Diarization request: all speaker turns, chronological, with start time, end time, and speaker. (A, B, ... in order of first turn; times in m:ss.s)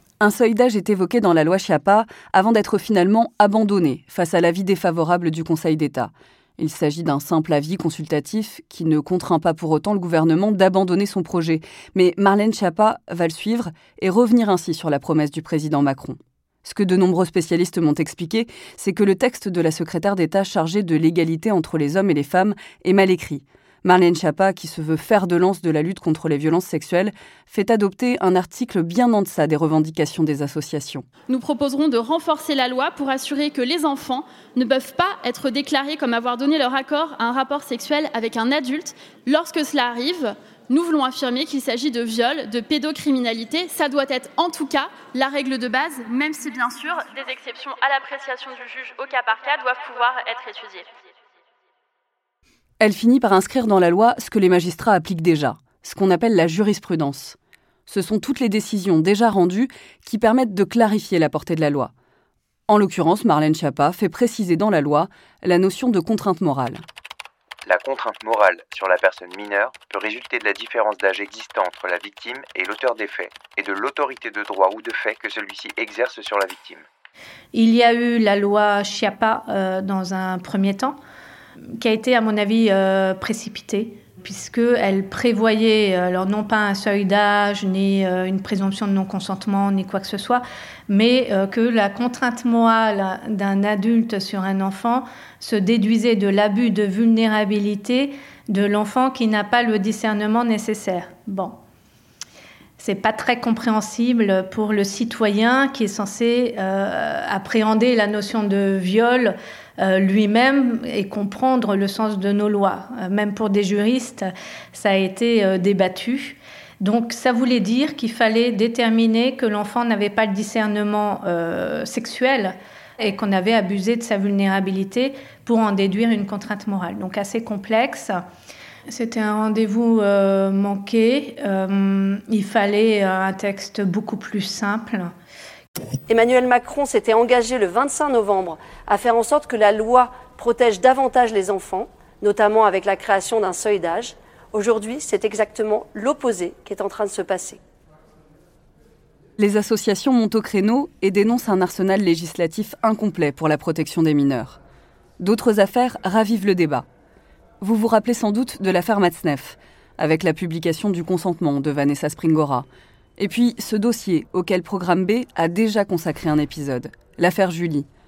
0:00.2-0:31.1 A
0:31.3-0:50.9 B
0:52.8-1:01.9 A
1:02.7-1:06.8 A
1:07.7-1:16.8 C
1:17.5-1:21.0 D
1:21.8-1:41.6 D
1:42.8-2:08.2 D
2:08.9-2:15.1 D
2:16.1-2:27.6 E
2:29.4-2:34.6 A
2:35.2-2:36.9 A
2:37.6-2:42.7 A
2:43.2-2:47.9 A